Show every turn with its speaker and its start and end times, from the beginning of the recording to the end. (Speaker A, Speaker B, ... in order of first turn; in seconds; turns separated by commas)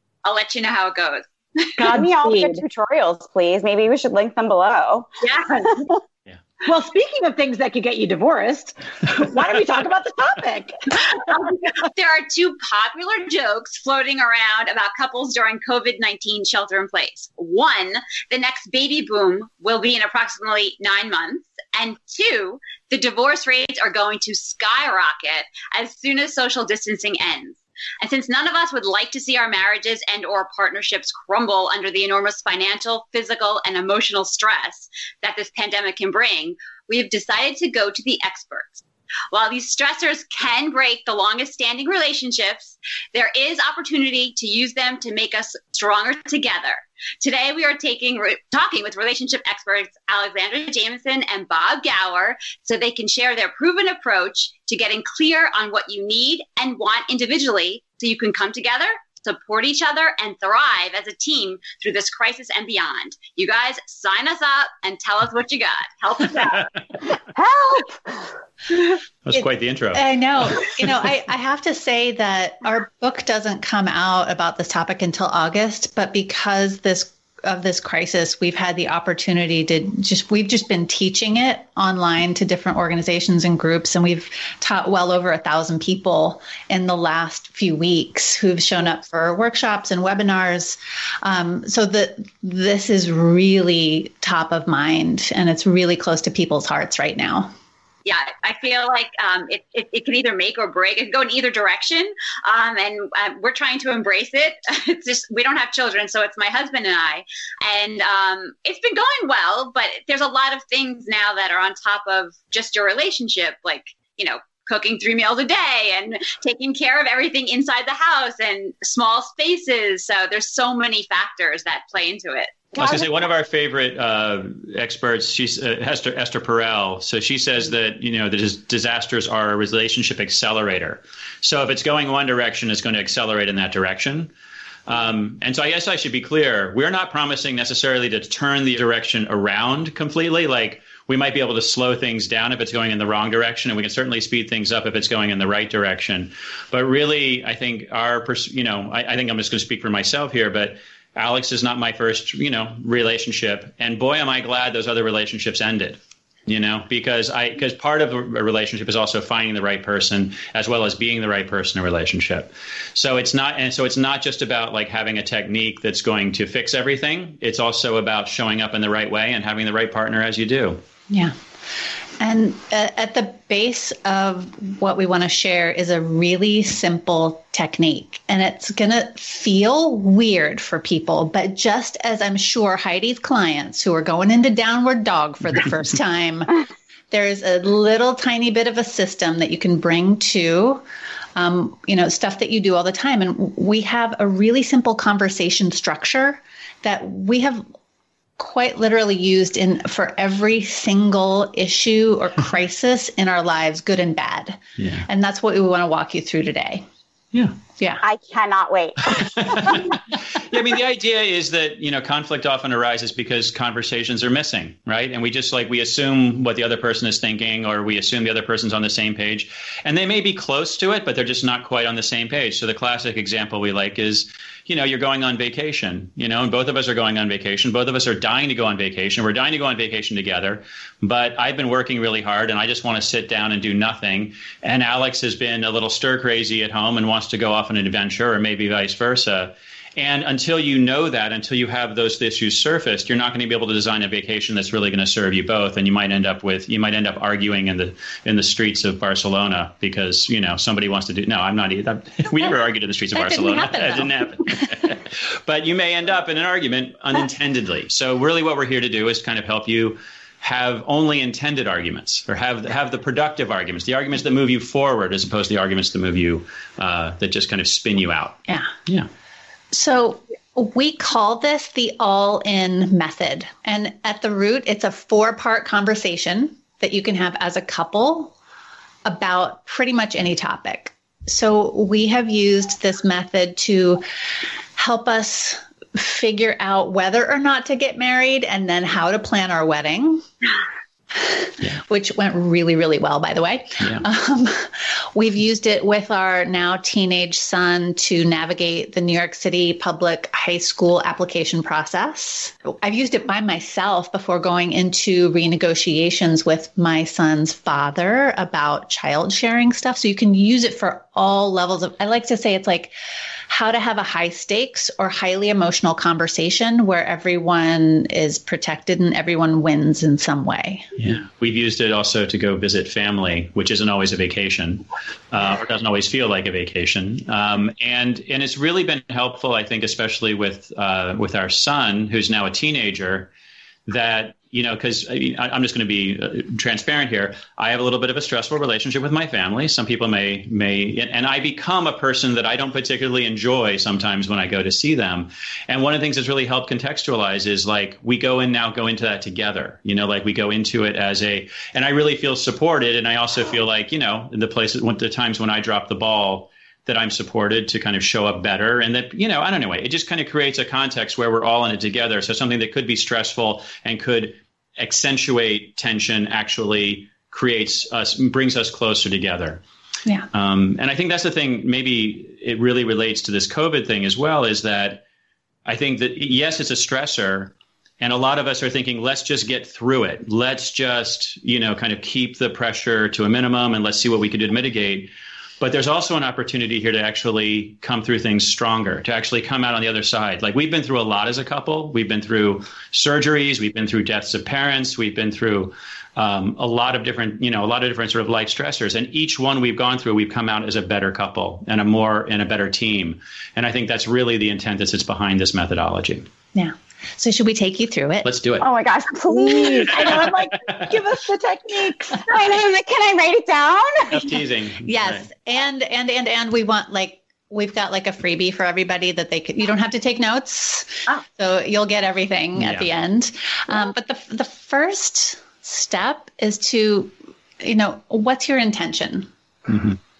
Speaker A: 0.2-2.0, Speaker B: 1.8-2.6, Speaker C: 1.9-5.1, Speaker A: 5.2-5.9, Speaker C: 5.6-5.9, Speaker B: 6.6-10.9, Speaker A: 11.1-66.7, Speaker C: 67.3-68.3, Speaker D: 69.2-70.0, Speaker E: 69.3-97.5, Speaker A: 98.0-122.7, Speaker D: 122.7-134.3, Speaker C: 122.8-123.1, Speaker D: 134.8-170.8, Speaker E: 172.2-186.5, Speaker E: 187.1-190.8, Speaker E: 191.3-197.6, Speaker E: 198.4-206.8, Speaker D: 204.8-205.1, Speaker C: 208.0-209.8, Speaker D: 209.1-269.1, Speaker E: 253.1-254.7, Speaker E: 269.7-278.3, Speaker E: 279.0-284.0, Speaker E: 284.8-290.2, Speaker E: 291.1-312.9, Speaker E: 313.5-320.9, Speaker D: 321.0-333.3, Speaker D: 333.9-369.6, Speaker D: 370.3-375.0, Speaker D: 375.6-406.3, Speaker E: 406.5-408.3, Speaker D: 408.2-408.7, Speaker C: 408.6-410.2, Speaker B: 409.3-412.2, Speaker D: 410.0-410.8, Speaker C: 412.2-414.3, Speaker D: 414.1-415.3, Speaker E: 414.8-429.3, Speaker D: 422.6-422.9, Speaker D: 429.7-430.0